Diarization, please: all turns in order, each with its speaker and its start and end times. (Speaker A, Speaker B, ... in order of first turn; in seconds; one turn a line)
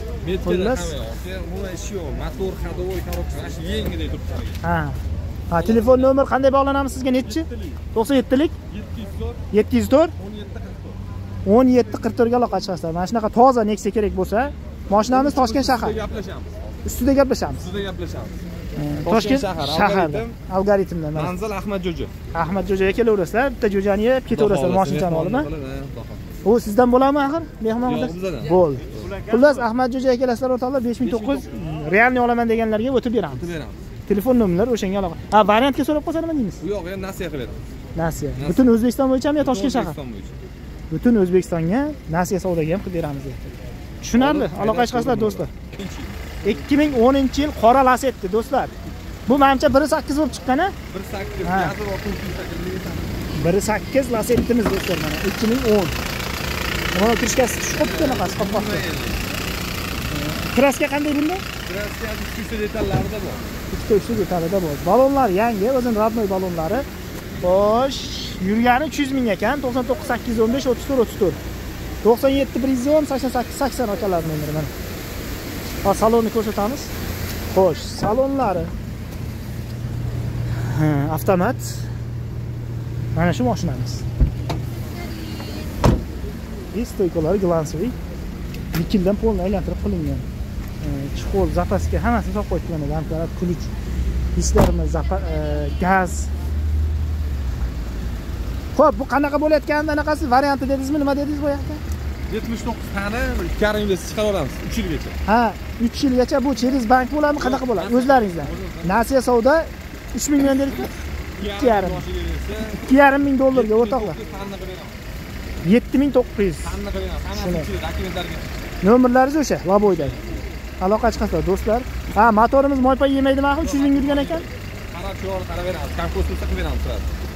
Speaker A: 0.2-4.6
Speaker B: 0.4-0.9
Speaker B: 4.6-8.5
Speaker A: 5.5-6.2
Speaker A: 7.2-7.8
Speaker A: 8.7-9.4
Speaker B: 9.5-10.1
Speaker A: 10.2-11.0
Speaker B: 11.4-16.0
Speaker A: 15.1-16.5
Speaker B: 16.8-17.6
Speaker A: 17.6-18.4
Speaker B: 18.8-21.4
Speaker A: 19.0-20.3
Speaker A: 21.1-22.1
Speaker B: 22.3-25.5
Speaker A: 24.3-26.2
Speaker B: 26.4-33.5
Speaker A: 27.8-29.6
Speaker A: 31.0-31.6
Speaker A: 33.4-33.8
Speaker B: 34.1-36.6
Speaker A: 36.6-37.6
Speaker B: 38.0-40.0
Speaker A: 38.4-38.7
Speaker A: 39.4-40.3
Speaker B: 40.9-45.5
Speaker A: 44.1-46.2
Speaker B: 46.4-48.7
Speaker B: 49.3-50.7
Speaker A: 50.9-53.0
Speaker B: 51.4-51.7
Speaker B: 53.4-55.9
Speaker B: 56.9-58.9
Speaker A: 57.8-59.3
Speaker B: 60.1-61.4
Speaker A: 61.6-63.4
Speaker B: 63.7-66.9
Speaker B: 67.4-71.4
Speaker B: 72.0-74.7
Speaker B: 75.8-76.9
Speaker B: 77.5-78.7
Speaker B: 80.6-81.9
Speaker B: 83.1-84.0
Speaker B: 86.7-88.0
Speaker B: 88.7-90.3
Speaker B: 90.8-93.7
Speaker B: 94.3-96.3
Speaker B: 98.7-101.8
Speaker A: 102.3-105.2
Speaker B: 105.2-112.0
Speaker A: 107.4-109.1
Speaker A: 111.4-112.8
Speaker B: 112.7-114.2
Speaker A: 113.5-115.0
Speaker B: 115.6-116.8
Speaker A: 116.6-118.5
Speaker B: 117.3-117.7
Speaker B: 118.8-120.2
Speaker A: 119.9-120.4
Speaker B: 120.8-124.5
Speaker A: 123.6-127.1